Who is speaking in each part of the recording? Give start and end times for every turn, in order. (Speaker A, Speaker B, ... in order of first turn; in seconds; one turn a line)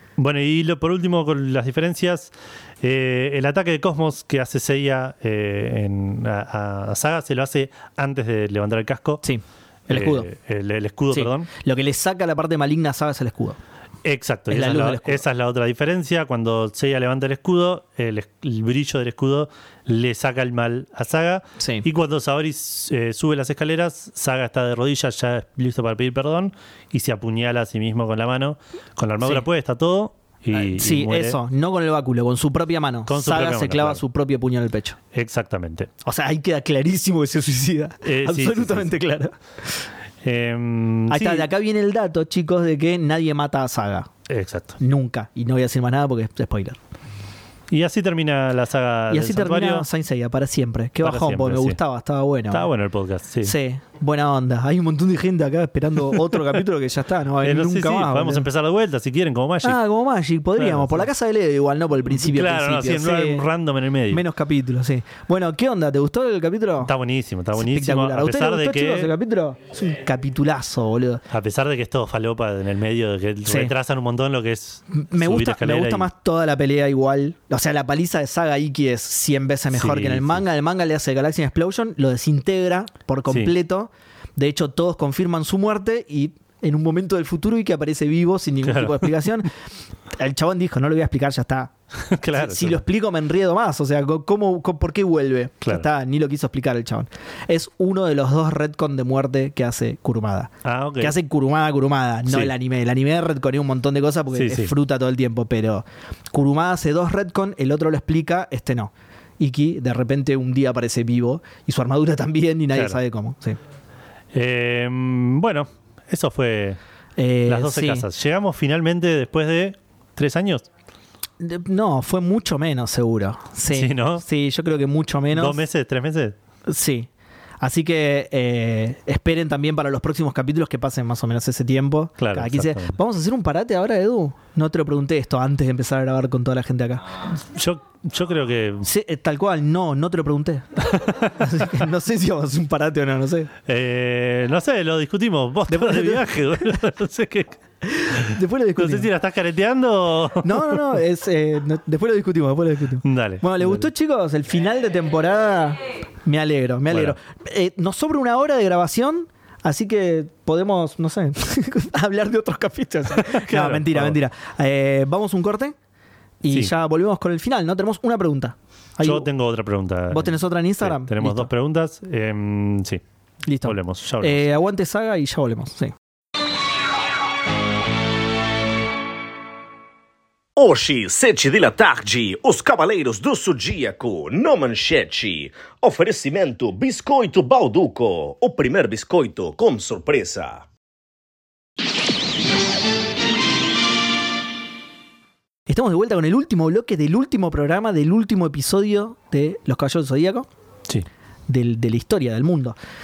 Speaker A: 0.2-9.2
Speaker B: 9.2-10.3
Speaker A: 9.9-11.5
Speaker B: 11.1-13.6
Speaker A: 14.0-31.4
Speaker B: 14.5-15.2
Speaker B: 21.6-21.9
Speaker B: 30.5-35.0
Speaker A: 33.1-34.0
Speaker A: 35.1-35.9
Speaker B: 36.0-39.4
Speaker A: 38.0-38.9
Speaker A: 40.2-41.5
Speaker B: 41.1-44.1
Speaker A: 44.3-44.8
Speaker B: 44.8-46.8
Speaker A: 47.7-49.9
Speaker B: 49.1-52.7
Speaker A: 51.0-51.8
Speaker A: 52.5-53.6
Speaker B: 53.4-58.5
Speaker A: 57.4-59.8
Speaker B: 59.6-63.4
Speaker A: 60.6-61.1
Speaker A: 62.1-64.2
Speaker B: 64.1-66.9
Speaker A: 66.8-69.1
Speaker B: 67.5-71.2
Speaker A: 71.3-76.1
Speaker B: 73.5-73.7
Speaker B: 74.9-89.5
Speaker A: 79.7-80.4
Speaker A: 83.3-83.5
Speaker A: 88.7-89.1
Speaker B: 90.2-91.7
Speaker A: 92.1-92.8
Speaker B: 92.3-113.6
Speaker A: 100.6-101.2
Speaker A: 102.3-102.5
Speaker A: 104.3-104.7
Speaker A: 114.3-116.8
Speaker B: 117.2-118.1
Speaker A: 117.5-120.7
Speaker B: 121.4-125.6
Speaker A: 123.7-124.2
Speaker A: 125.3-126.4
Speaker B: 126.7-127.1
Speaker B: 127.6-137.0
Speaker A: 132.2-133.0
Speaker A: 137.4-138.9
Speaker B: 138.8-143.5
Speaker A: 143.7-147.6
Speaker B: 145.7-146.7
Speaker B: 147.9-149.1
Speaker A: 148.8-151.0
Speaker B: 150.4-165.8
Speaker A: 153.0-153.9
Speaker A: 156.9-157.2
Speaker A: 163.2-164.2
Speaker B: 166.4-169.3
Speaker A: 169.0-173.0
Speaker B: 170.1-171.5
Speaker B: 173.5-175.9
Speaker A: 173.6-174.5
Speaker C: 180.6-190.7
Speaker B: 195.7-200.5
Speaker B: 201.5-202.8